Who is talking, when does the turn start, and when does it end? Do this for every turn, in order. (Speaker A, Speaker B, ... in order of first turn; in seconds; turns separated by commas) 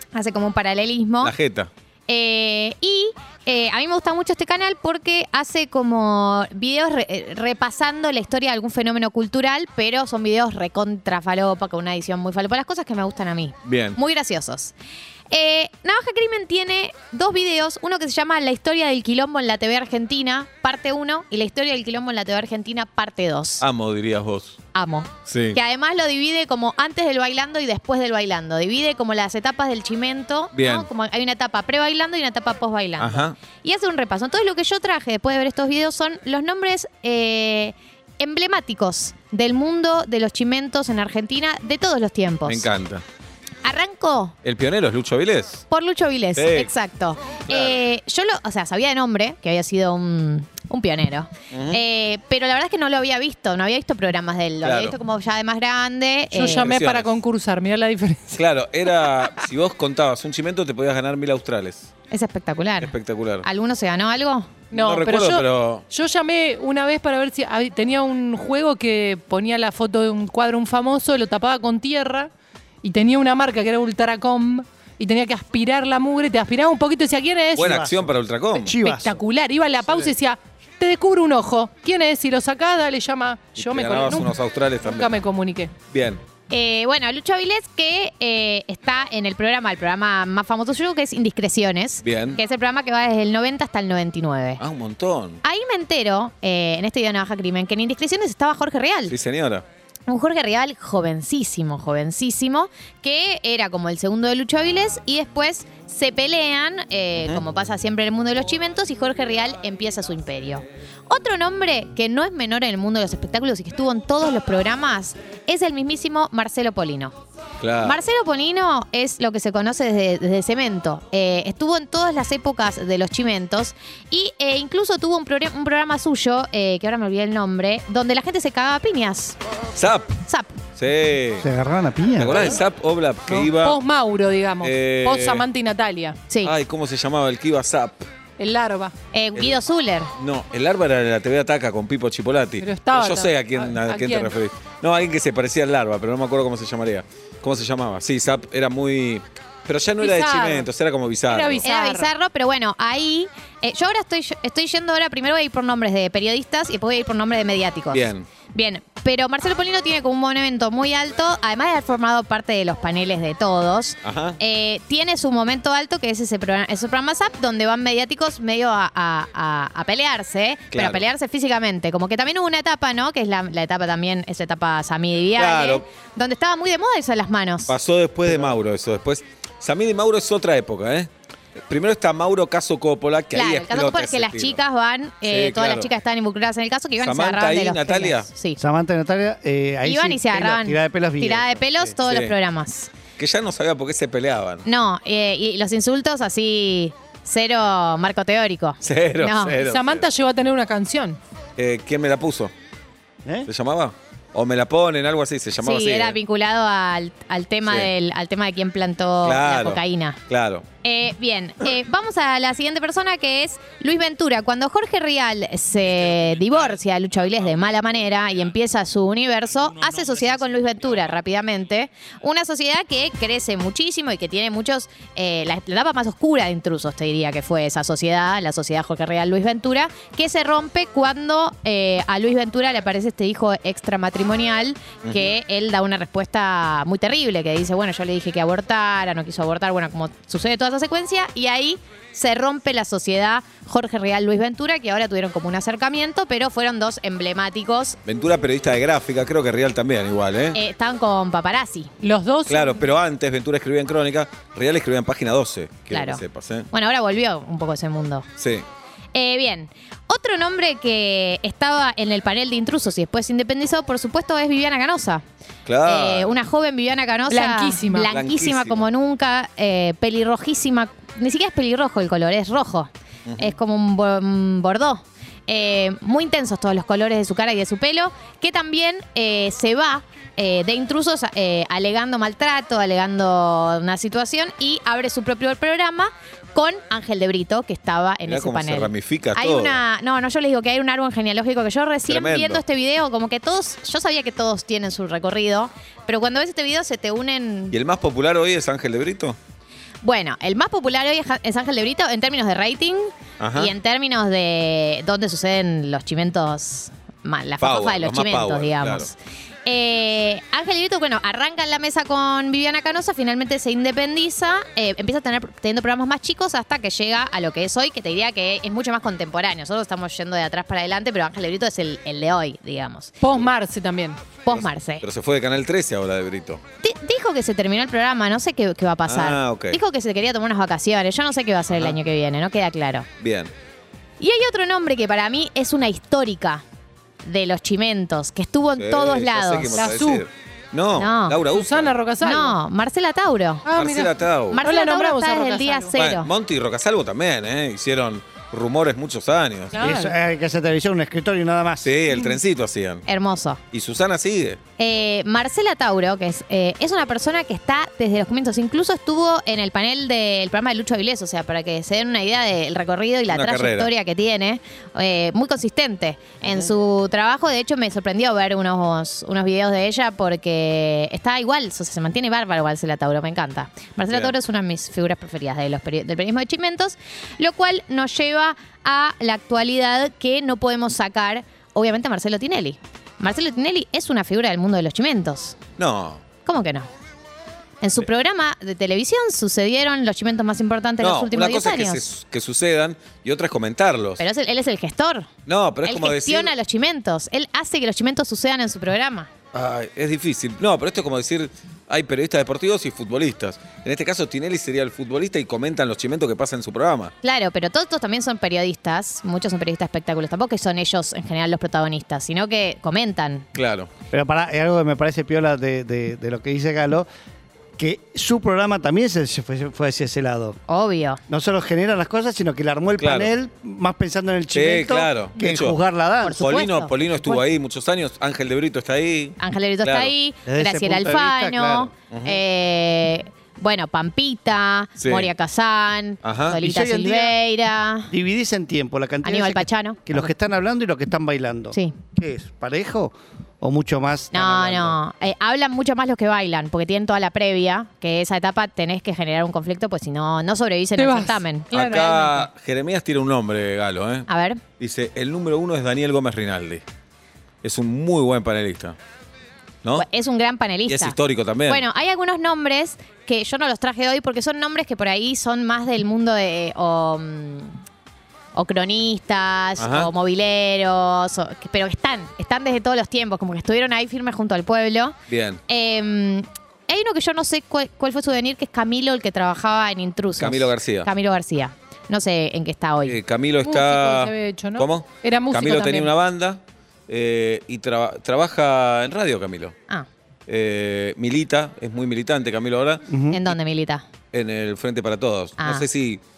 Speaker A: 0.1-1.4, Speaker B: 1.2-1.7, Speaker A: 2.1-14.7, Speaker B: 13.7-14.0, Speaker A: 15.3-23.6, Speaker B: 23.6-24.6, Speaker A: 24.8-42.7, Speaker B: 25.3-25.6, Speaker B: 30.6-30.9, Speaker B: 33.0-33.4, Speaker B: 42.5-43.0, Speaker A: 43.6-44.4, Speaker B: 44.4-45.6, Speaker A: 45.7-56.7, Speaker B: 46.4-46.7, Speaker B: 47.5-47.8, Speaker B: 51.5-51.8, Speaker B: 54.6-55.0, Speaker C: 56.3-58.4, Speaker B: 56.5-57.2, Speaker B: 58.3-61.9, Speaker A: 62.1-64.6, Speaker B: 62.8-63.5, Speaker B: 64.7-65.8, Speaker C: 64.7-72.3, Speaker C: 72.8-77.7, Speaker B: 77.6-78.8, Speaker D: 77.6-79.2, Speaker C: 78.8-85.8, Speaker B: 83.5-85.2, Speaker B: 85.9-86.2, Speaker A: 86.5-94.6, Speaker B: 92.0-92.4, Speaker B: 94.6-95.4, Speaker A: 95.4-99.2, Speaker B: 99.1-99.7, Speaker A: 100.1-117.2, Speaker B: 107.2-107.4, Speaker B: 117.6-118.0, Speaker A: 117.8-129.4, Speaker B: 129.8-130.1, Speaker A: 130.3-130.6, Speaker B: 130.8-131.5, Speaker D: 131.4-132.6, Speaker B: 132.2-133.8, Speaker C: 133.3-136.3, Speaker B: 134.6-135.5, Speaker B: 136.4-138.1, Speaker C: 138.4-138.9, Speaker A: 139.1-140.1, Speaker B: 140.2-151.6, Speaker C: 142.6-144.3, Speaker C: 150.0-150.7, Speaker C: 151.3-152.1, Speaker A: 151.6-177.7, Speaker B: 157.9-158.3, Speaker B: 164.0-164.4, Speaker B: 170.7-171.1, Speaker B: 175.4-175.8, Speaker B: 177.7-181.1, Speaker B: 181.7-184.6, Speaker A: 183.3-188.6, Speaker B: 185.3-185.9, Speaker B: 187.0-188.3, Speaker D: 188.6-191.8, Speaker A: 189.8-192.9, Speaker B: 192.1-192.4, Speaker B: 193.2-194.7, Speaker A: 194.7-199.6, Speaker B: 198.8-200.1, Speaker C: 199.6-201.2, Speaker B: 201.6-202.5, Speaker B: 203.5-206.2, Speaker A: 205.6-210.2, Speaker B: 207.7-207.9, Speaker B: 209.2-210.7, Speaker A: 210.8-248.0, Speaker B: 235.0-235.3, Speaker B: 248.1-250.6, Speaker A: 250.5-251.9, Speaker C: 252.0-252.8, Speaker B: 252.5-256.7, Speaker A: 255.9-258.3, Speaker B: 258.4-258.6, Speaker A: 259.1-265.2, Speaker B: 265.7-266.4, Speaker A: 265.8-297.8, Speaker C: 267.3-268.1, Speaker B: 268.1-268.9, Speaker B: 273.3-273.5, Speaker B: 288.3-289.8, Speaker B: 292.1-292.6, Speaker B: 297.7-299.4, Speaker A: 300.0-323.2, Speaker B: 303.4-303.7, Speaker B: 307.6-309.1, Speaker C: 323.2-324.2, Speaker A: 324.4-325.1, Speaker B: 324.5-326.6, Speaker A: 326.8-333.1, Speaker B: 329.1-329.8, Speaker B: 331.7-332.0, Speaker B: 333.2-333.5, Speaker A: 334.2-336.6, Speaker A: 337.2-339.9, Speaker B: 338.8-342.0, Speaker C: 339.8-340.2, Speaker A: 341.0-341.4, Speaker C: 341.5-342.6, Speaker A: 342.2-343.7, Speaker C: 343.7-346.0, Speaker B: 343.7-344.6, Speaker A: 344.5-346.3, Speaker B: 346.0-349.9, Speaker C: 349.7-350.1, Speaker D: 349.8-351.9, Speaker B: 351.8-353.1, Speaker A: 353.1-353.6, Speaker B: 353.7-354.6, Speaker A: 354.8-385.6, Speaker B: 363.3-363.9, Speaker B: 374.1-374.4, Speaker B: 385.8-386.2, Speaker A: 386.4-386.9, Speaker A: 387.8-392.1, Speaker B: 391.0-394.2, Speaker A: 394.2-395.3, Speaker B: 395.5-396.5, Speaker A: 395.9-399.3, Speaker B: 399.5-407.1, Speaker A: 407.2-413.5, Speaker B: 413.6-413.9, Speaker D: 414.1-417.1, Speaker D: 417.8-420.6, Speaker A: 420.7-421.2, Speaker D: 421.3-426.4, Speaker B: 423.0-423.3, Speaker B: 424.5-425.8, Speaker A: 426.2-427.4, Speaker B: 426.4-430.1, Speaker A: 429.4-438.1, Speaker D: 430.5-431.9, Speaker B: 432.1-432.4, Speaker B: 435.0-435.3, Speaker B: 436.2-436.6, Speaker D: 436.5-437.4, Speaker D: 438.1-445.0, Speaker A: 439.2-440.0, Speaker A: 441.7-442.0, Speaker A: 444.3-451.7, Speaker C: 451.0-452.5, Speaker B: 451.7-454.3, Speaker A: 454.3-454.6, Speaker B: 454.8-456.8, Speaker B: 457.6-459.0, Speaker A: 459.9-467.8, Speaker B: 460.9-461.9, Speaker A: 468.5-475.2, Speaker B: 469.8-470.1, Speaker B: 475.3-475.6, Speaker A: 475.7-483.2, Speaker B: 480.4-481.1, Speaker B: 483.1-489.8, Speaker C: 483.6-486.1, Speaker B: 490.5-493.6, Speaker D: 493.1-493.4, Speaker A: 493.3-494.1, Speaker B: 494.3-496.2, Speaker A: 495.6-495.9